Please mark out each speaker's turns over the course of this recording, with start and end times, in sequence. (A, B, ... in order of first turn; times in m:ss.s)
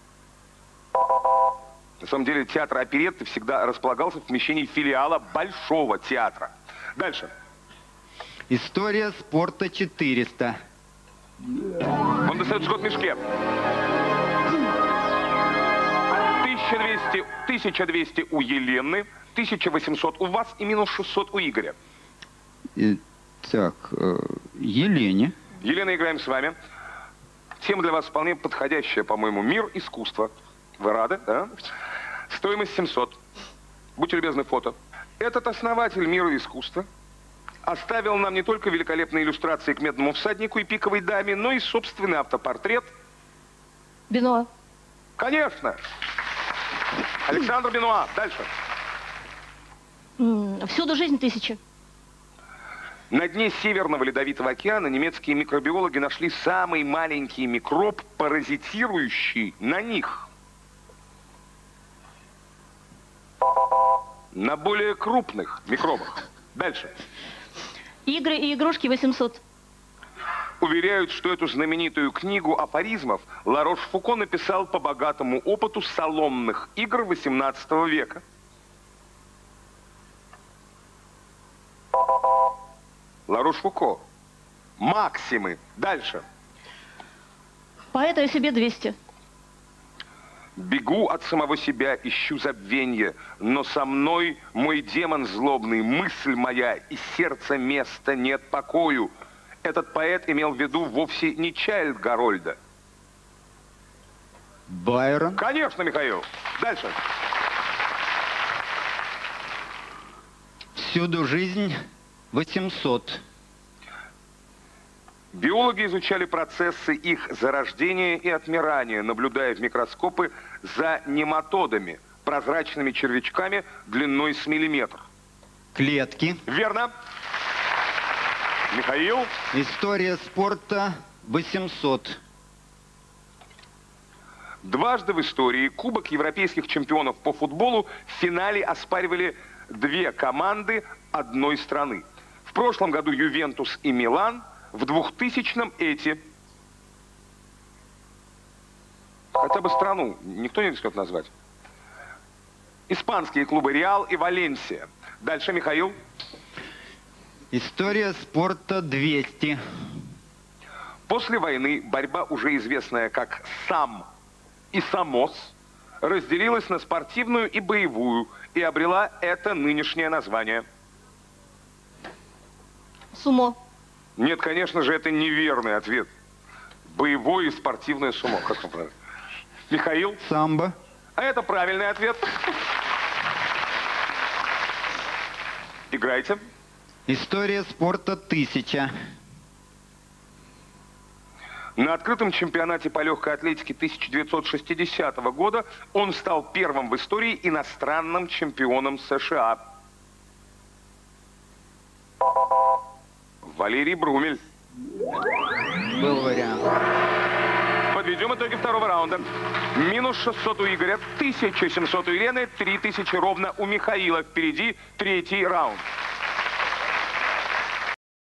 0:02.0-0:07.3 A
0:08.5-0:10.6 B
0:12.2-0:13.2 A
0:16.4-0:21.8 A
0:22.8-0:25.4 B
0:25.6-0:26.6 A
0:27.6-0:31.7 A
0:32.3-0:33.2 A
0:34.0-0:36.9 A
0:37.7-0:42.9 A
0:44.1-0:44.5 C
0:45.2-0:45.8 A
0:47.3-0:48.5 A
0:50.2-0:51.6 C
0:53.1-1:00.3 A
1:04.3-1:06.9 A
1:08.0-1:09.4 C
1:10.6-1:18.2 A
1:23.3-1:24.0 A
1:24.8-1:26.2 A
1:27.9-1:29.0 C
1:30.6-1:39.1 A
1:39.6-1:42.6 A
1:44.7-1:45.4 B
1:45.4-1:47.0 A
1:50.8-1:51.8 B
1:52.3-1:53.2 B
1:55.3-2:05.0 A
2:05.8-2:06.4 B
2:06.5-2:06.9 A
2:08.7-2:09.3 A
2:09.5-2:12.2 B
2:14.6-2:26.2 A
2:29.4-2:31.3 A
2:32.9-2:36.0 A
2:37.5-2:39.6 B
2:41.1-2:44.1 A
2:44.7-2:50.6 A
2:53.1-2:53.6 C
2:54.2-2:56.1 A
2:56.9-2:58.9 A
2:59.7-3:00.2 A
3:00.2-3:00.7 B
3:01.2-3:02.4 A
3:05.9-3:06.4 A
3:07.1-3:08.9 B
3:11.8-3:19.6 A
3:23.4-3:24.4 A
3:25.9-3:26.7 B
3:27.9-3:35.8 A